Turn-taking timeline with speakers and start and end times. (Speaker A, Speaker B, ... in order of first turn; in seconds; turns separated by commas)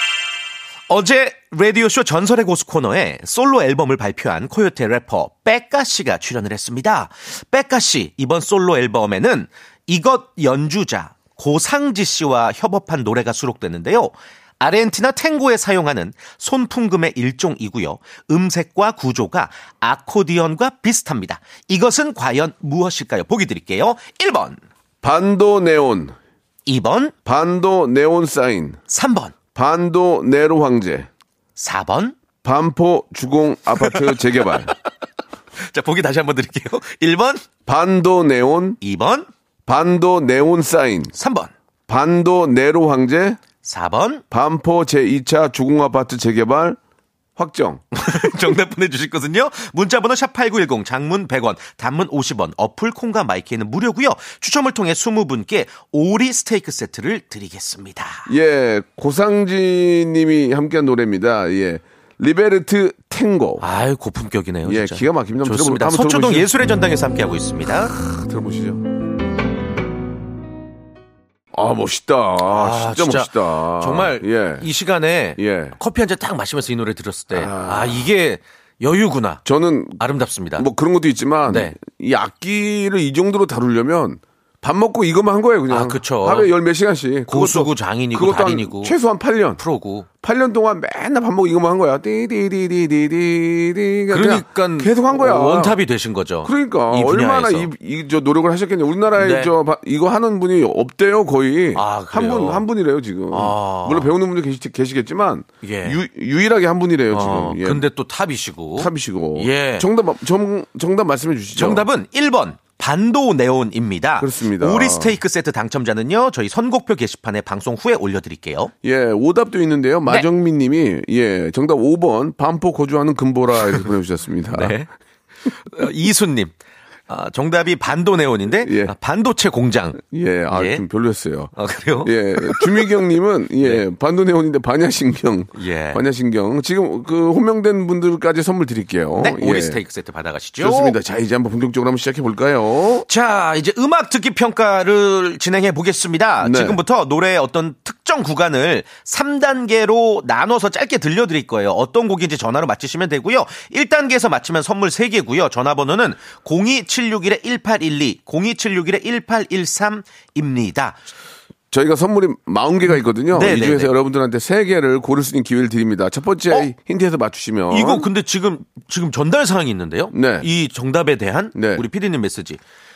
Speaker A: 0.9-24.6, Speaker B: 25.0-26.1, Speaker A: 26.6-27.1, Speaker B: 27.2-28.8, Speaker A: 28.9-29.3, Speaker B: 29.5-31.1, Speaker A: 31.6-32.2, Speaker B: 32.4-34.7, Speaker A: 33.8-34.2, Speaker A: 35.7-37.4, Speaker B: 37.6-38.8, Speaker A: 38.8-39.3, Speaker B: 39.7-41.1, Speaker A: 41.1-41.5, Speaker B: 41.9-43.4, Speaker A: 43.6-44.2, Speaker B: 44.3-46.8, Speaker B: 47.4-47.8, Speaker A: 47.9-58.2, Speaker B: 58.3-63.6, Speaker A: 63.6-67.9, Speaker B: 64.6-66.5, Speaker B: 67.9-68.8, Speaker B: 71.5-74.7, Speaker A: 72.4-79.4, Speaker B: 75.4-75.8, Speaker B: 77.3-78.1, Speaker B: 79.4-80.0, Speaker A: 80.0-80.7, Speaker B: 80.5-89.6, Speaker A: 81.5-81.8, Speaker A: 85.7-86.5, Speaker A: 87.3-89.0, Speaker A: 89.6-90.1, Speaker B: 90.2-95.8, Speaker A: 94.1-97.7, Speaker B: 96.4-107.8, Speaker A: 99.2-99.5, Speaker A: 101.7-102.6, Speaker A: 103.3-104.1, Speaker A: 105.6-106.0, Speaker A: 107.1-109.9, Speaker B: 108.8-111.8, Speaker A: 111.5-118.7, Speaker B: 114.2-115.2, Speaker B: 118.8-124.8, Speaker A: 124.5-124.9, Speaker A: 125.7-126.5, Speaker A: 127.1-130.8, Speaker B: 128.6-128.9, Speaker B: 130.0-139.8, Speaker A: 131.5-132.8, Speaker A: 135.5-136.0, Speaker A: 139.2-140.9, Speaker B: 140.6-143.1, Speaker A: 143.1-161.0, Speaker B: 146.4-146.8, Speaker B: 161.7-168.1, Speaker A: 163.3-163.9, Speaker A: 167.7-172.6, Speaker B: 170.1-170.5, Speaker B: 171.5-171.8